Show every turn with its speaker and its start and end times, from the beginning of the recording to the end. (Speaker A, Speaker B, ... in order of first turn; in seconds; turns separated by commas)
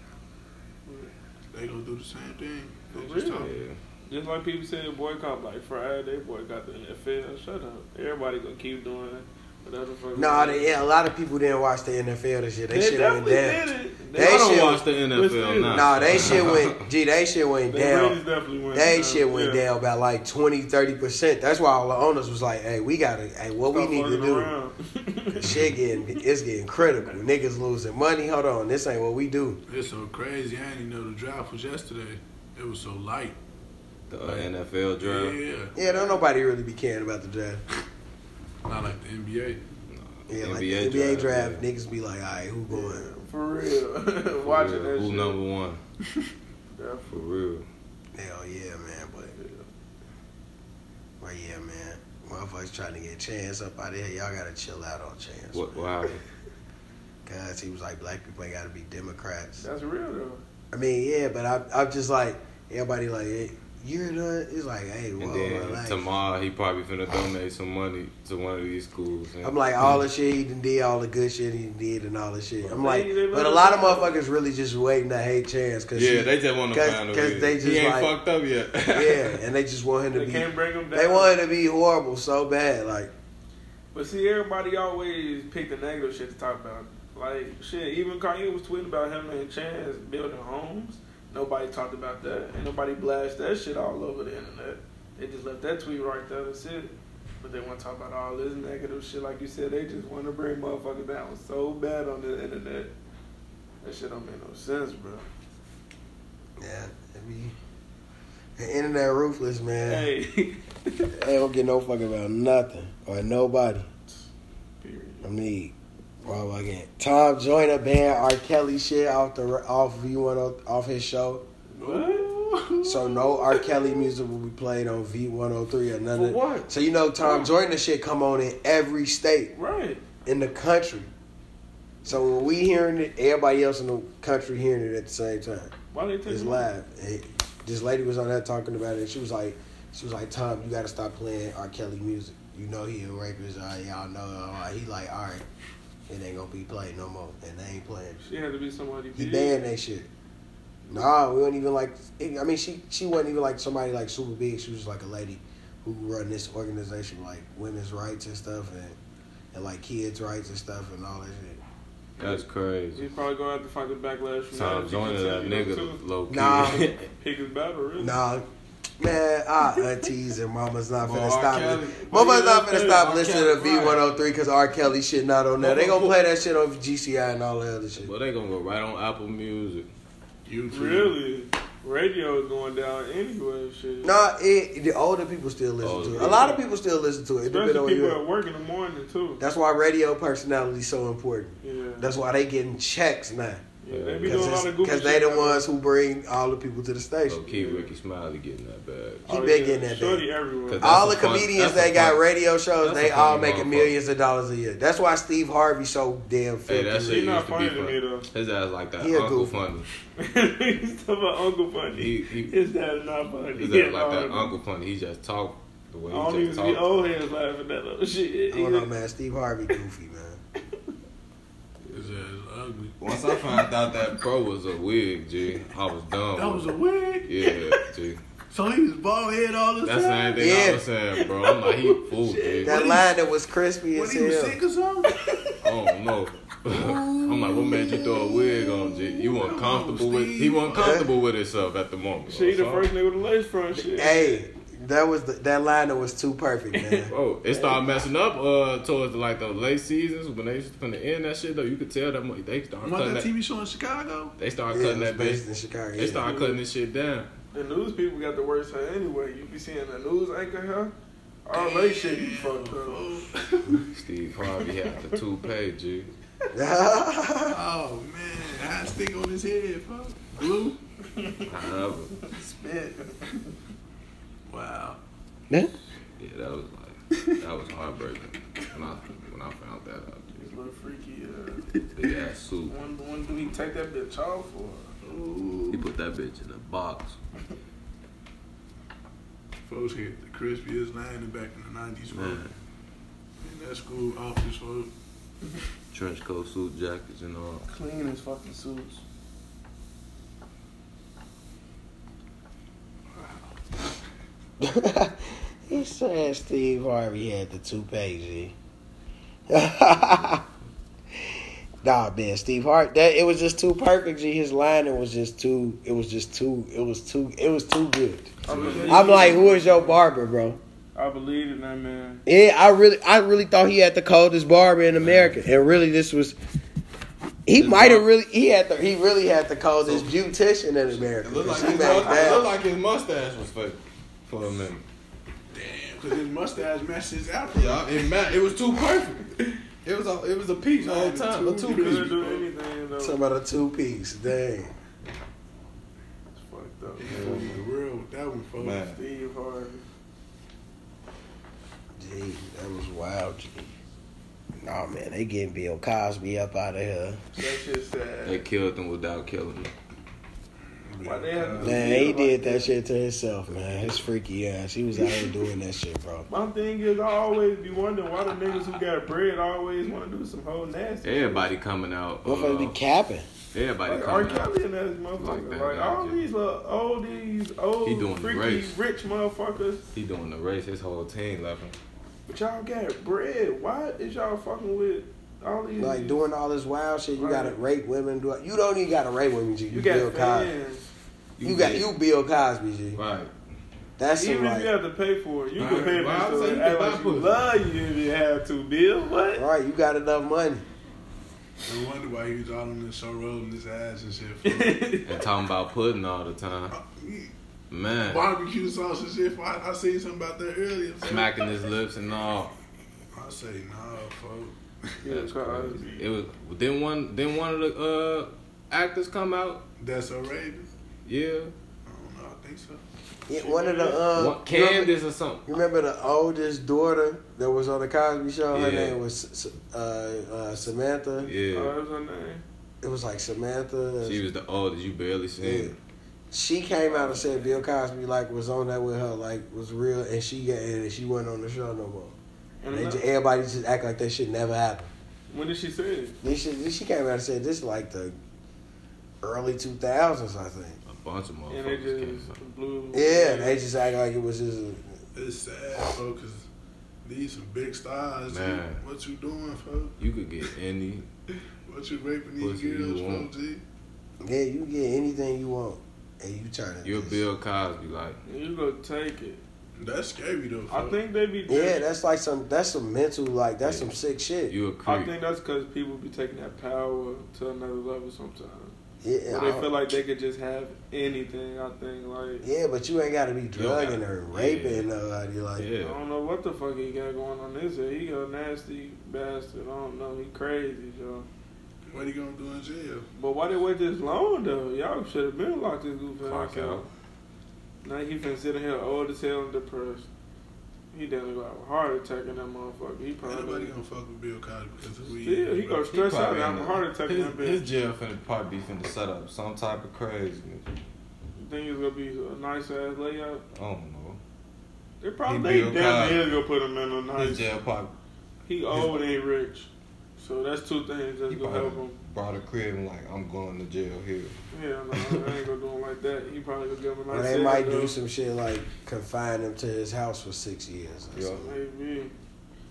Speaker A: 0.9-1.1, Speaker B: 1.5-3.5, Speaker A: 2.9-3.5, Speaker C: 3.4-3.8, Speaker A: 4.1-10.8, Speaker D: 10.2-14.8, Speaker A: 12.7-16.4, Speaker C: 14.2-16.9, Speaker D: 15.7-18.2, Speaker A: 17.7-19.6, Speaker D: 18.7-24.5, Speaker A: 23.7-26.2, Speaker D: 25.4-29.6, Speaker C: 25.4-25.7, Speaker B: 29.7-33.4, Speaker C: 34.1-35.4, Speaker B: 34.2-35.7, Speaker D: 35.8-37.6, Speaker A: 35.8-36.3, Speaker B: 38.6-39.6, Speaker C: 39.9-41.6, Speaker D: 40.3-43.1, Speaker A: 42.7-45.4, Speaker C: 44.4-45.8, Speaker A: 46.7-47.2, Speaker C: 47.1-47.7, Speaker D: 48.1-49.4, Speaker A: 49.4-49.7, Speaker D: 51.2-55.8, Speaker C: 55.5-56.2, Speaker D: 57.3-59.6, Speaker A: 59.6-60.4, Speaker D: 60.7-66.0, Speaker C: 65.2-70.0, Speaker D: 69.4-78.1, Speaker A: 72.6-74.2, Speaker C: 76.0-79.4, Speaker D: 78.9-83.1, Speaker A: 80.1-81.4, Speaker A: 83.9-102.9, Speaker A: 103.8-105.3, Speaker D: 106.6-107.5, Speaker D: 108.6-110.1, Speaker A: 109.9-111.1, Speaker D: 111.1-113.9, Speaker A: 114.8-115.3, Speaker D: 115.2-121.5, Speaker A: 121.7-122.3, Speaker B: 121.8-123.6, Speaker D: 122.8-129.5, Speaker A: 126.2-126.7, Speaker A: 127.2-127.5, Speaker A: 129.5-130.0, Speaker D: 130.3-131.1, Speaker D: 132.0-135.7, Speaker A: 135.9-136.7, Speaker D: 136.3-145.4, Speaker D: 146.1-148.2, Speaker A: 148.2-149.7, Speaker D: 149.2-150.1, Speaker D: 150.9-159.0, Speaker D: 159.5-161.6, Speaker C: 162.2-163.1, Speaker A: 162.2-166.0, Speaker C: 164.5-167.1, Speaker D: 166.3-166.9, Speaker A: 167.1-168.2, Speaker D: 168.0-168.5, Speaker D: 169.0-178.1, Speaker C: 171.0-174.0, Speaker C: 175.6-176.1, Speaker C: 178.0-179.9, Speaker B: 180.5-181.2, Speaker A: 180.7-184.2, Speaker D: 184.0-188.2, Speaker C: 185.8-186.6, Speaker A: 186.2-186.5, Speaker A: 187.4-189.4, Speaker D: 189.4-193.6, Speaker A: 191.6-192.1, Speaker A: 193.8-195.7, Speaker C: 193.9-194.6, Speaker D: 194.2-197.4, Speaker C: 197.3-199.3, Speaker A: 197.5-197.9, Speaker A: 199.3-201.0, Speaker D: 199.3-200.3, Speaker C: 200.7-202.2, Speaker D: 200.8-207.3, Speaker C: 202.8-203.9, Speaker C: 206.7-209.9, Speaker A: 207.1-208.3, Speaker D: 209.0-209.6, Speaker A: 210.2-214.6, Speaker C: 211.9-212.5, Speaker C: 213.6-217.1, Speaker A: 216.1-218.9, Speaker D: 218.5-220.4, Speaker B: 221.9-223.0, Speaker C: 223.0-228.2, Speaker B: 226.3-227.8, Speaker B: 228.5-230.7, Speaker C: 229.8-232.8, Speaker D: 230.4-230.8, Speaker A: 231.2-233.0, Speaker D: 232.6-234.6, Speaker B: 232.7-233.0, Speaker B: 233.9-235.6, Speaker A: 235.1-235.4, Speaker C: 235.6-242.9, Speaker B: 236.7-241.0, Speaker D: 240.8-241.1, Speaker A: 242.3-244.4, Speaker D: 243.8-247.1, Speaker A: 246.7-247.7, Speaker C: 247.1-253.3, Speaker B: 252.8-254.3, Speaker C: 254.4-255.4, Speaker D: 254.7-256.3, Speaker C: 256.0-257.3, Speaker A: 256.2-256.6, Speaker A: 257.5-260.9, Speaker A: 261.4-263.1, Speaker B: 261.5-263.9, Speaker C: 263.9-266.1, Speaker A: 264.8-265.2, Speaker D: 266.5-267.6, Speaker B: 267.5-270.8, Speaker A: 271.1-271.5, Speaker C: 271.5-272.2, Speaker A: 272.2-273.5, Speaker B: 274.5-275.0, Speaker C: 276.2-280.4, Speaker A: 280.3-281.7, Speaker C: 281.9-282.8, Speaker A: 282.7-284.9, Speaker B: 285.0-285.9, Speaker C: 285.7-287.2, Speaker B: 289.6-292.4, Speaker C: 292.1-292.5, Speaker B: 293.4-294.9, Speaker C: 295.9-297.6, Speaker A: 297.7-299.0, Speaker D: 304.6-308.6, Speaker D: 309.5-310.4, Speaker D: 311.2-318.4, Speaker A: 318.4-320.0, Speaker B: 318.5-319.5, Speaker C: 318.5-319.1, Speaker D: 318.9-320.6, Speaker A: 320.9-322.2, Speaker D: 322.3-326.4, Speaker C: 325.0-325.4, Speaker D: 327.5-332.5, Speaker C: 327.6-328.1, Speaker C: 329.8-330.1, Speaker C: 331.1-334.8, Speaker A: 331.7-332.5, Speaker B: 335.5-338.0, Speaker C: 337.5-342.1, Speaker B: 340.8-342.5, Speaker A: 341.7-343.2, Speaker D: 343.0-344.7, Speaker A: 346.4-347.3, Speaker B: 347.0-348.9, Speaker C: 347.1-347.6, Speaker C: 348.6-349.0, Speaker A: 348.9-349.8, Speaker D: 352.0-353.7, Speaker D: 354.6-357.2, Speaker A: 357.4-358.4, Speaker C: 358.2-359.7, Speaker B: 360.8-362.0, Speaker A: 361.0-362.7, Speaker D: 361.6-366.3, Speaker A: 366.3-371.5, Speaker C: 371.0-372.8, Speaker D: 372.2-373.3, Speaker C: 373.5-374.6, Speaker A: 373.9-379.9, Speaker C: 375.2-376.2, Speaker C: 377.8-378.8, Speaker C: 379.9-381.8, Speaker A: 382.3-386.2, Speaker D: 385.8-390.5, Speaker A: 387.2-387.6, Speaker A: 389.7-390.9, Speaker C: 391.4-391.9, Speaker D: 391.4-393.0, Speaker C: 392.9-393.3, Speaker D: 394.0-394.7, Speaker A: 394.1-399.5, Speaker C: 395.6-397.4, Speaker D: 399.4-400.6, Speaker B: 401.6-404.8, Speaker A: 404.4-405.2, Speaker C: 405.1-406.8, Speaker B: 406.7-407.3, Speaker C: 407.7-408.2, Speaker B: 408.1-411.5, Speaker C: 411.0-412.5, Speaker B: 413.1-414.9, Speaker A: 415.0-416.1, Speaker C: 415.1-419.7, Speaker B: 419.8-420.7, Speaker C: 421.1-421.5, Speaker B: 421.9-422.8, Speaker D: 423.3-424.9, Speaker A: 423.4-424.0, Speaker C: 424.1-425.5, Speaker D: 425.5-431.3, Speaker C: 428.5-429.0, Speaker C: 431.2-431.7, Speaker A: 431.5-432.4, Speaker D: 432.8-434.2, Speaker C: 434.0-435.8, Speaker D: 435.4-435.7, Speaker D: 436.3-442.2, Speaker A: 436.8-437.6, Speaker A: 442.6-443.1, Speaker D: 442.7-444.9, Speaker A: 445.3-446.2, Speaker D: 446.2-448.2, Speaker D: 449.2-450.8, Speaker C: 450.9-452.4, Speaker A: 451.5-453.6, Speaker D: 452.9-455.0, Speaker B: 455.1-456.5, Speaker B: 457.0-459.9, Speaker C: 458.3-458.8, Speaker C: 460.0-461.1, Speaker B: 461.7-463.6, Speaker C: 462.4-463.3, Speaker D: 464.2-467.2, Speaker C: 466.8-468.2, Speaker A: 468.2-469.4, Speaker B: 469.8-471.0, Speaker A: 470.7-471.8, Speaker D: 471.5-474.5, Speaker C: 473.6-473.9, Speaker C: 474.5-475.1, Speaker A: 474.9-478.8, Speaker D: 479.0-479.7, Speaker A: 479.3-482.5, Speaker D: 482.4-485.7, Speaker C: 483.6-484.9, Speaker C: 485.6-486.0, Speaker A: 485.8-491.3, Speaker B: 491.9-493.1, Speaker A: 493.1-496.9, Speaker C: 496.2-496.9, Speaker A: 497.8-500.1, Speaker A: 500.9-503.7, Speaker B: 503.2-505.8, Speaker A: 505.2-507.6, Speaker C: 505.9-510.7, Speaker A: 511.4-513.4, Speaker C: 513.5-514.2, Speaker A: 515.0-517.5, Speaker C: 515.3-516.3, Speaker C: 517.2-518.0, Speaker A: 518.5-522.0, Speaker C: 521.3-524.4, Speaker A: 524.5-528.0, Speaker C: 525.0-525.2, Speaker D: 527.1-531.5, Speaker C: 531.1-531.5, Speaker A: 531.4-532.1